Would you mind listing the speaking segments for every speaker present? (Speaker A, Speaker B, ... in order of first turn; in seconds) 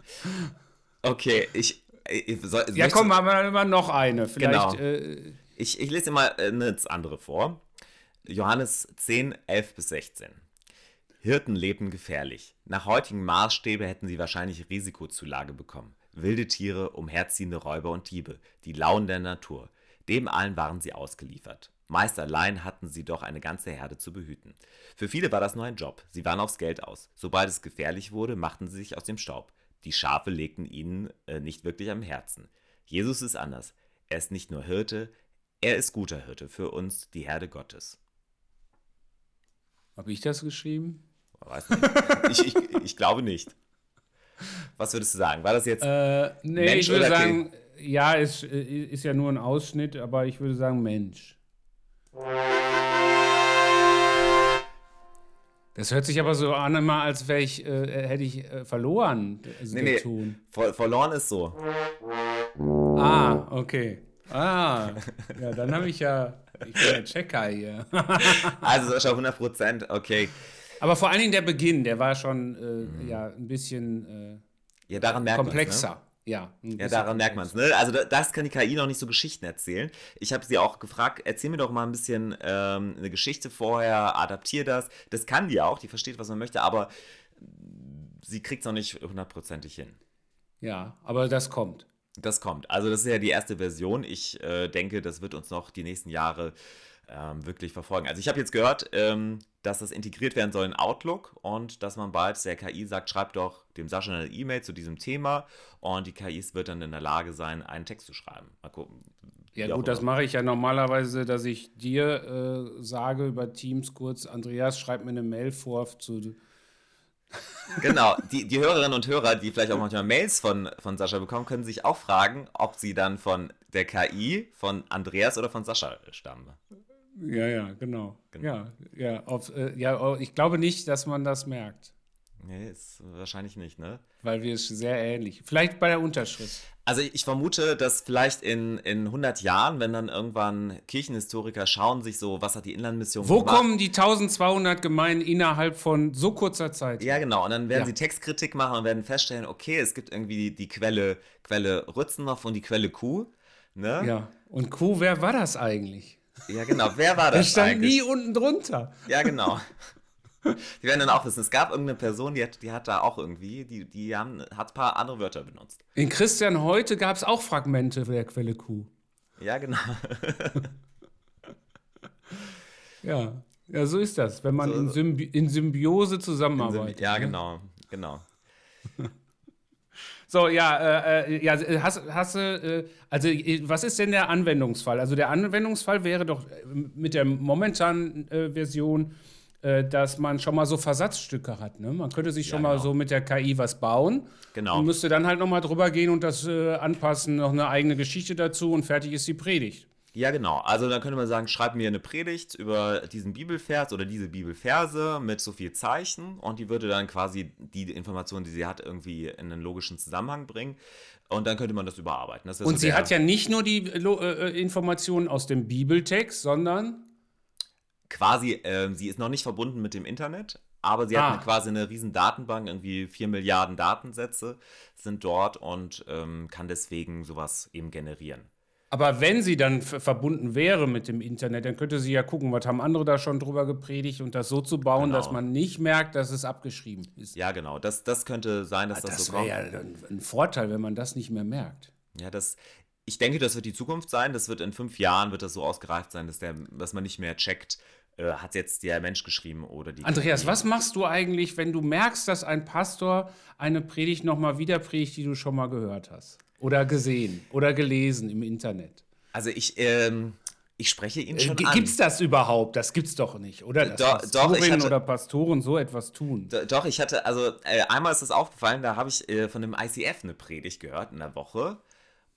Speaker A: 1.0-3.1, 4.4-4.8, 5.6-7.6, 8.2-10.4, 11.2-38.0, 41.4-43.5, 44.8-45.9, 46.4-47.4, 59.7-61.6, 68.3-70.4, 72.8-73.2, 74.9-75.9, 76.8-90.0, 92.2-96.5, 97.1-110.1, 117.8-126.6, 132.4-134.0, 136.8-143.7, 147.0-154.1, 156.5-158.0, 159.1-159.7, 160.8-165.8, 169.4-170.7, 174.6-175.0, 176.6-178.3, 192.4-192.9, 194.5-194.9, 200.1-213.1, 218.1-228.5, 235.0-235.4, 237.3-239.5, 242.2-250.6, 259.3-262.0, 263.8-264.9, 266.5-271.8
Speaker B: 2.7-5.4, 40.0-41.0, 41.8-42.4, 45.8-51.4, 55.8-60.4, 63.0-68.7, 70.8-74.4, 75.3-77.5, 90.6-91.9, 109.6-116.4, 127.2-131.9, 134.2-136.7, 143.2-147.2, 154.0-156.2, 157.3-159.3, 166.0-168.9, 173.0-177.3, 180.3-199.9, 212.6-217.1, 221.1-221.5, 228.9-237.3, 238.9-241.9, 250.0-259.0, 261.3-266.5